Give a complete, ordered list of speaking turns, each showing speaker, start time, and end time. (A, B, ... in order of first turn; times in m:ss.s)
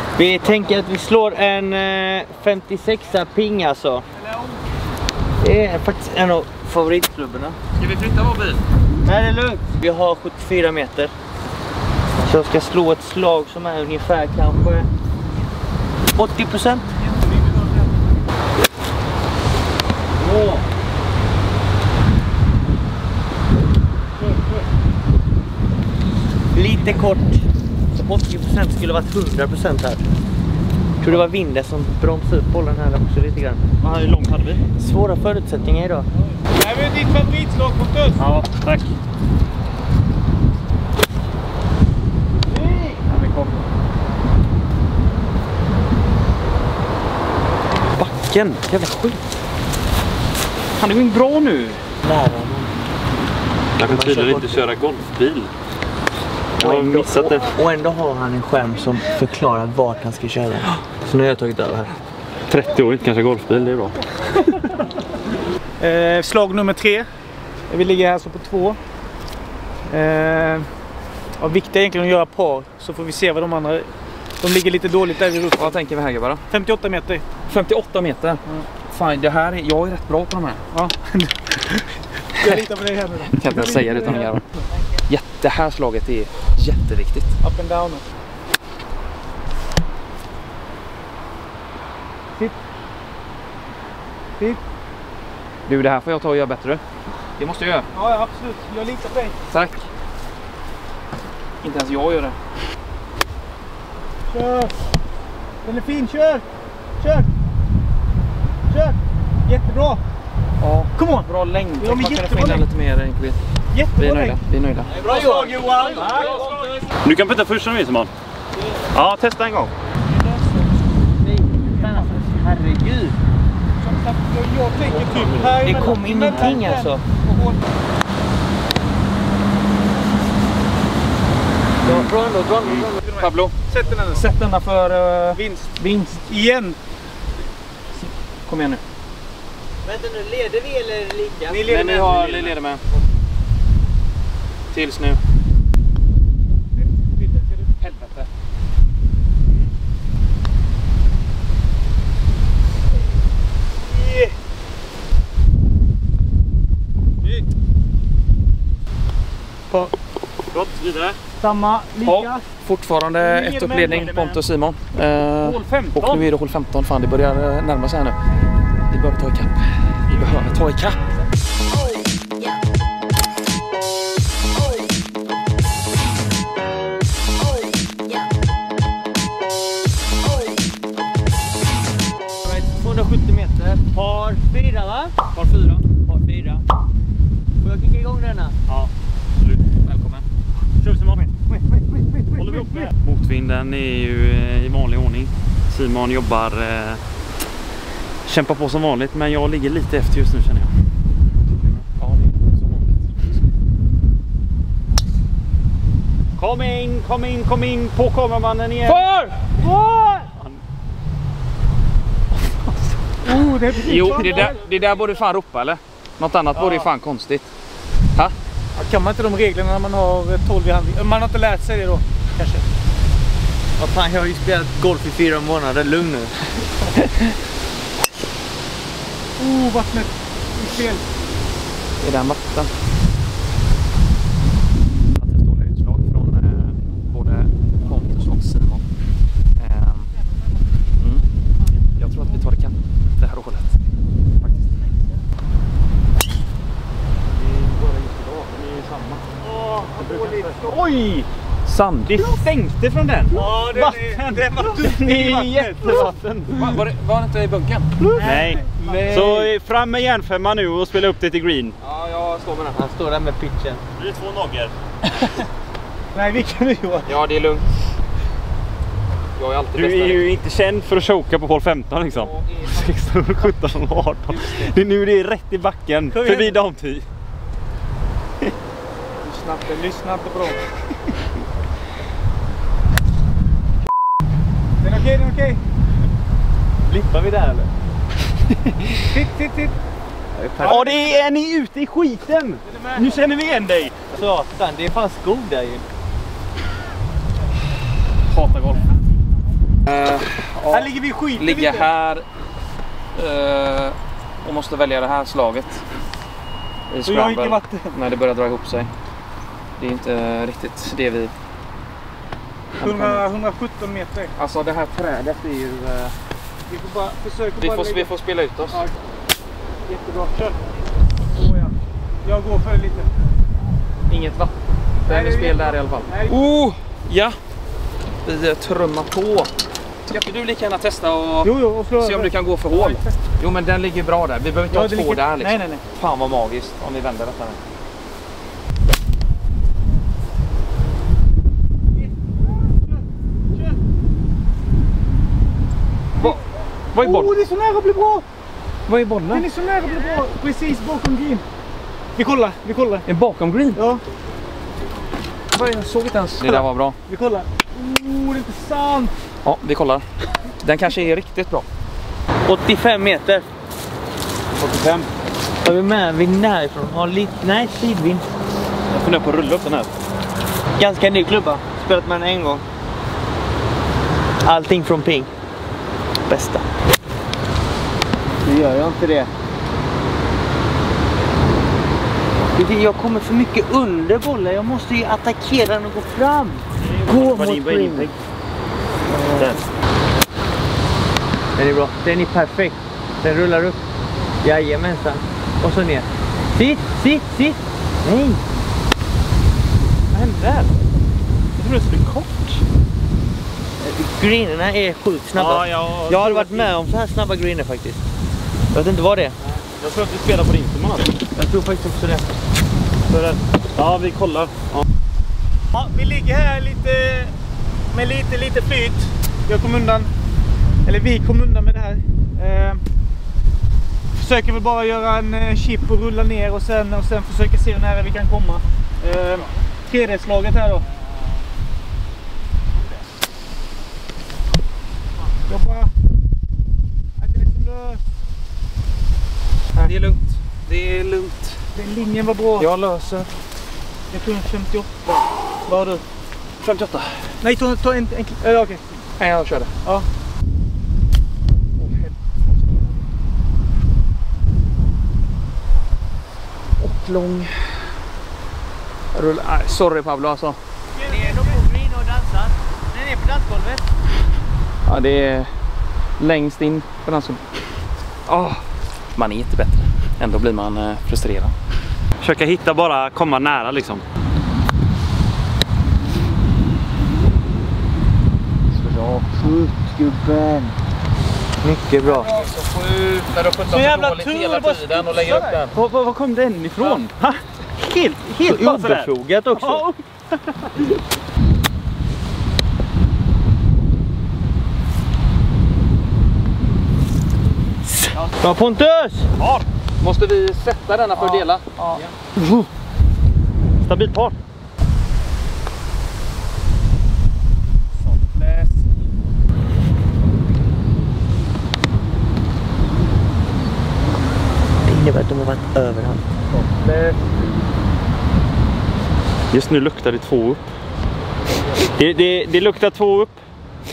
0:00.1-0:04.0 A
0:04.2-0:04.6 B
0:05.4-0:07.6 A
0:07.8-0:08.6 C
0:09.0-0:11.1 A
0:12.2-0:14.9 A
0:16.1-0:16.9 A
0:17.0-0:18.0 B
0:20.2-0:20.6 D
0:26.5-0:30.0 A
0:31.0-0:33.7 A
0:33.8-0:34.6 D
0:34.8-0:36.1 A
0:36.4-0:38.2 B
0:38.2-0:38.9 D
0:43.1-0:43.5 C
0:48.0-0:49.2 D
0:50.8-0:51.8 D
0:52.0-0:52.7 A
0:53.8-0:55.5 D
0:53.8-0:54.6 A
0:56.6-0:57.5 D
0:56.6-1:02.0 A
1:02.5-1:04.0 D
1:05.8-1:07.1 B
1:07.7-1:08.8 B
1:09.9-1:10.7 B
1:11.4-1:13.9 B
1:14.4-1:15.8 B
1:15.6-1:16.4 C
1:16.5-1:17.2 B
1:17.5-1:20.6 C
1:20.7-1:24.6 B
1:22.4-1:22.6 C
1:23.3-1:24.4 C
1:24.7-1:25.0 A
1:25.1-1:27.3 C
1:27.4-1:28.0 B
1:35.7-1:36.8 C
1:37.4-1:37.8 C
1:37.9-1:39.3 B
1:39.5-1:39.8 C
1:41.6-1:42.4 C
1:44.3-1:44.7 B
1:45.6-1:46.4 B
1:47.0-1:47.3 B
1:48.7-1:50.0 B
1:50.6-1:53.4 C
1:51.0-1:52.6 B
1:53.7-1:54.4 B
1:54.0-1:55.0 C
1:54.9-1:56.6 B
1:54.9-1:56.9 A
1:55.0-1:56.4 D
1:56.0-1:56.3 C
1:57.0-1:58.1 D
1:58.9-1:59.7 D
2:00.1-2:00.4 B
2:01.2-2:03.2 A
2:01.6-2:02.4 B
2:03.8-2:07.6 B
2:05.1-2:05.8 D
2:05.4-2:07.0 A
2:06.3-2:06.6 D
2:11.8-2:13.0 A
2:11.8-2:12.1 D
2:13.0-2:14.2 B
2:13.2-2:13.5 C
2:14.1-2:16.1 C
2:15.3-2:16.8 B
2:18.0-2:18.8 C
2:19.8-2:21.7 A
2:21.5-2:22.5 B
2:21.7-2:22.8 C
2:24.7-2:25.2 C
2:26.8-2:27.7 B
2:27.8-2:28.3 C
2:33.9-2:34.3 B
2:40.5-2:41.2 D
2:41.4-2:42.4 B
2:42.0-2:48.2 C
2:43.2-2:44.1 B
2:43.8-2:44.4 D
2:45.4-2:46.3 D
2:48.9-2:51.0 C
3:02.4-3:05.2 A
3:05.3-3:05.8 C
3:05.9-3:06.6 A
3:07.6-3:08.6 A
3:08.7-3:09.6 D
3:09.8-3:10.2 C
3:10.8-3:11.2 D
3:11.9-3:12.6 A
3:12.4-3:17.0 D
3:18.2-3:20.7 D
3:21.9-3:23.3 C
3:26.4-3:29.0 D
3:28.8-3:29.4 C
3:29.6-3:30.2 A
3:30.3-3:30.6 D
3:33.2-3:34.5 B
3:33.7-3:37.5 C
3:34.3-3:34.5 A
3:38.8-3:42.6 B
3:43.8-3:46.4 A
3:47.0-3:47.3 C
3:49.4-3:51.0 B
3:52.0-3:52.7 C
3:55.1-3:58.8 C
3:59.6-4:00.1 C
4:01.0-4:01.2 C
4:02.0-4:03.8 C
4:04.4-4:04.7 C
4:07.4-4:09.3 D
4:09.4-4:10.0 A
4:09.9-4:10.8 B
4:10.0-4:11.3 D
4:11.6-4:12.2 C
4:12.0-4:13.4 D
4:13.3-4:16.1 B
4:13.3-4:16.1 A
4:14.1-4:16.8 D
4:16.5-4:17.9 C
4:18.0-4:19.3 B
4:18.1-4:19.5 A
4:18.2-4:21.7 D
4:21.8-4:22.8 C
4:22.7-4:23.8 A
4:24.0-4:24.7 D
4:26.1-4:27.1 B
4:27.0-4:27.7 C
4:29.4-4:30.3 C
4:29.7-4:37.0 D
4:32.1-4:33.4 C
4:34.3-4:34.7 C
4:36.1-4:36.6 B
4:39.2-4:39.7 C
4:39.5-4:40.6 B
4:44.8-4:45.6 B
4:46.9-4:47.7 A
4:49.0-4:49.8 B
4:50.3-4:51.2 A
4:50.6-4:50.8 B
4:50.6-4:54.0 D
4:52.6-4:53.2 B
4:54.1-4:55.8 A
4:58.3-4:58.8 C
4:59.8-5:02.2 C
5:00.7-5:01.9 B
5:03.1-5:05.8 C
5:06.9-5:08.9 C
5:07.0-5:07.9 B
5:09.8-5:11.3 C
5:12.7-5:13.2 C
5:12.8-5:14.3 B
5:14.4-5:16.1 C
5:16.7-5:18.1 B
5:17.6-5:18.8 C
5:19.9-5:20.6 B
5:21.2-5:23.1 B
5:24.1-5:24.5 C
5:25.0-5:27.4 C
5:25.1-5:26.4 B
5:28.2-5:29.5 C
5:30.0-5:37.6 C
5:31.4-5:33.2 B
5:34.7-5:35.8 B
5:41.9-5:43.8 B
5:46.9-5:47.3 C
5:47.0-5:48.2 B
5:48.9-5:49.5 C
5:49.3-5:51.4 B
5:52.2-5:53.0 B
5:53.0-5:53.8 C
5:53.7-5:54.0 B
5:55.5-5:57.0 C
5:56.4-5:59.1 B
5:59.4-6:00.0 C
6:00.6-6:01.6 C
6:02.4-6:03.5 A
6:04.6-6:05.1 D
6:05.6-6:08.3 A
6:08.9-6:09.9 D
6:10.8-6:12.6 A
6:14.4-6:15.3 A
6:16.3-6:16.7 A
6:18.4-6:19.3 A
6:22.5-6:28.1 A
6:26.8-6:28.2 D
6:29.1-6:29.6 A
6:29.3-6:29.6 D
6:31.6-6:33.8 A
6:34.4-6:38.4 A
6:40.1-6:40.7 D
6:41.6-6:42.6 D
6:43.8-6:48.0 A
6:45.3-6:46.7 D
6:48.7-6:49.4 A
6:49.6-6:51.2 D
6:51.3-6:52.3 A
6:53.1-6:54.8 D
6:55.7-6:57.3 B
6:57.9-7:00.1 B
7:00.8-7:02.8 B
7:04.2-7:08.6 B
7:09.0-7:09.4 D
7:09.2-7:10.8 B
7:15.5-7:15.9 B
7:17.2-7:18.0 B
7:19.8-7:21.6 C
7:21.7-7:22.7 B
7:22.6-7:23.3 C
7:24.1-7:26.0 B
7:26.6-7:27.1 C
7:27.4-7:28.8 B
7:29.2-7:29.7 C
7:31.8-7:33.0 C
7:36.8-7:38.0 C
7:39.1-7:40.6 C
7:41.0-7:43.9 A
7:41.0-7:41.5 B
7:44.8-7:45.5 C
7:46.2-7:47.4 C
7:48.2-7:51.5 C
7:52.2-7:54.0 D
7:58.9-7:59.2 C
7:59.3-8:00.7 A
8:01.6-8:02.3 A
8:02.0-8:05.7 C
8:03.7-8:05.6 B
8:05.7-8:07.4 D
8:07.8-8:09.8 A
8:08.2-8:10.0 D
8:17.8-8:19.3 A
8:19.4-8:19.6 D
8:20.0-8:21.6 C
8:21.2-8:22.0 B
8:23.8-8:24.4 D
8:28.3-8:28.7 B
8:34.8-8:36.2 A
8:36.5-8:37.2 C
8:39.5-8:40.7 D
8:41.9-8:43.4 D